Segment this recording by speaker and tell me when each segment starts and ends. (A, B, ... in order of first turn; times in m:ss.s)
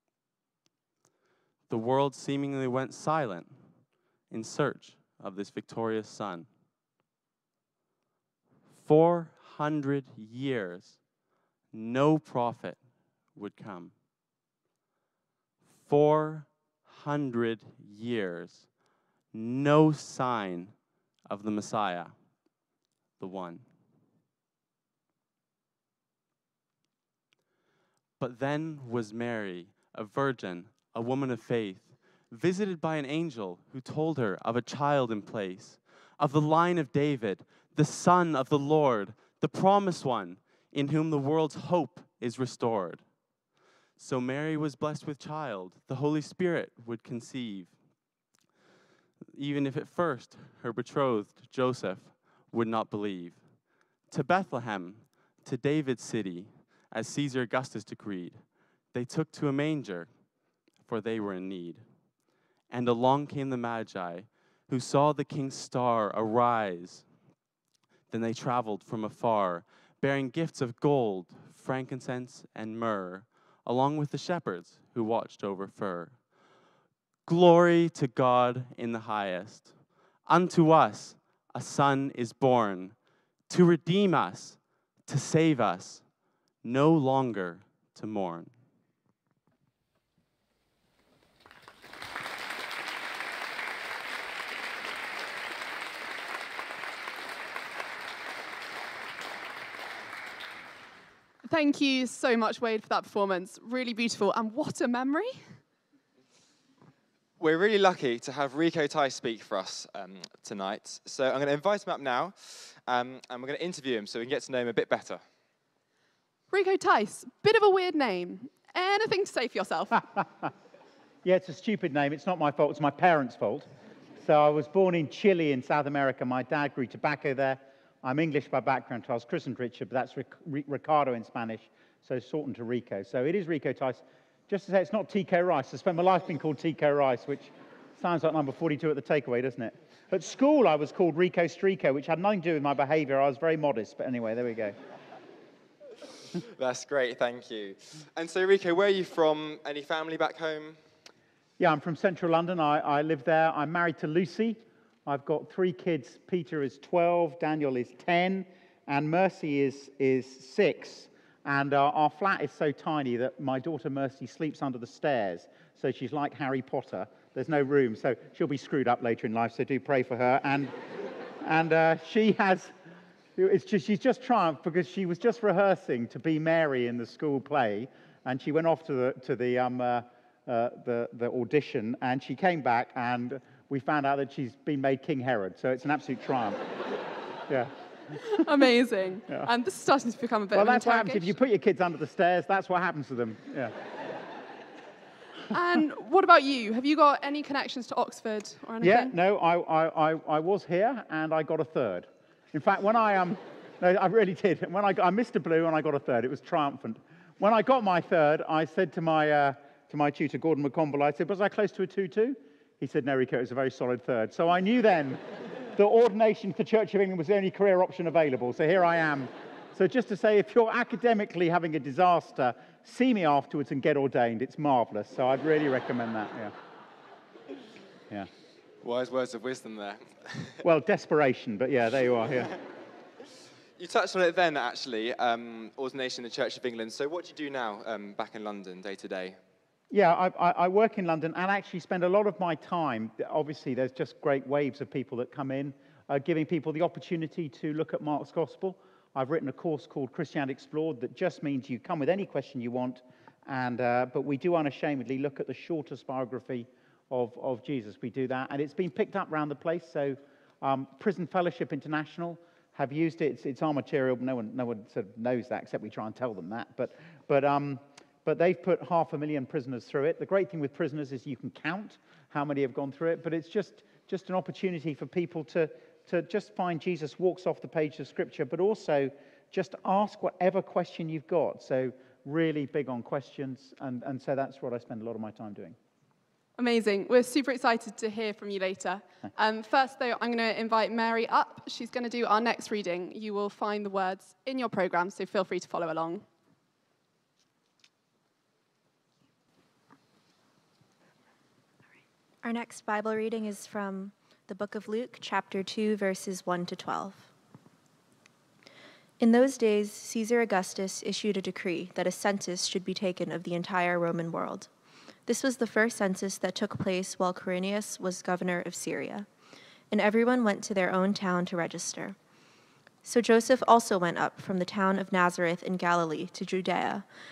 0:01.7-0:06.5 A
0:08.7-0:11.1 A
0:11.7-0:14.0 A
0:15.8-0:18.7 A
0:19.3-0:22.2 A
0:23.2-0:23.7 A
0:28.2-0:43.2 A
0:44.0-0:47.8 A
0:49.3-1:01.9 A
1:02.7-1:07.1 A
1:08.1-1:16.2 A
1:17.2-1:19.7 A
1:20.2-1:28.6 A
1:41.4-1:45.6 B
1:47.4-1:55.2 C
1:56.5-2:00.1 B
2:01.2-2:03.7 D
2:04.2-2:24.8 D
2:26.5-2:30.8 C
2:31.6-2:50.8 D
2:51.4-2:52.7 D
2:53.4-3:06.6 D
3:07.5-3:07.7 D
3:08.4-3:11.3 B
3:10.5-3:13.7 D
3:15.5-3:19.1 B
3:18.8-3:35.2 D
3:35.8-3:46.5 D
3:48.8-3:50.6 C
3:50.6-3:52.5 D
3:53.8-3:59.4 C
3:59.9-4:45.8 D
4:46.6-4:56.2 B
5:02.4-5:07.3 E
5:09.2-5:14.7 E
5:15.2-5:19.3 E
5:19.9-5:22.2 E
5:23.0-5:27.1 E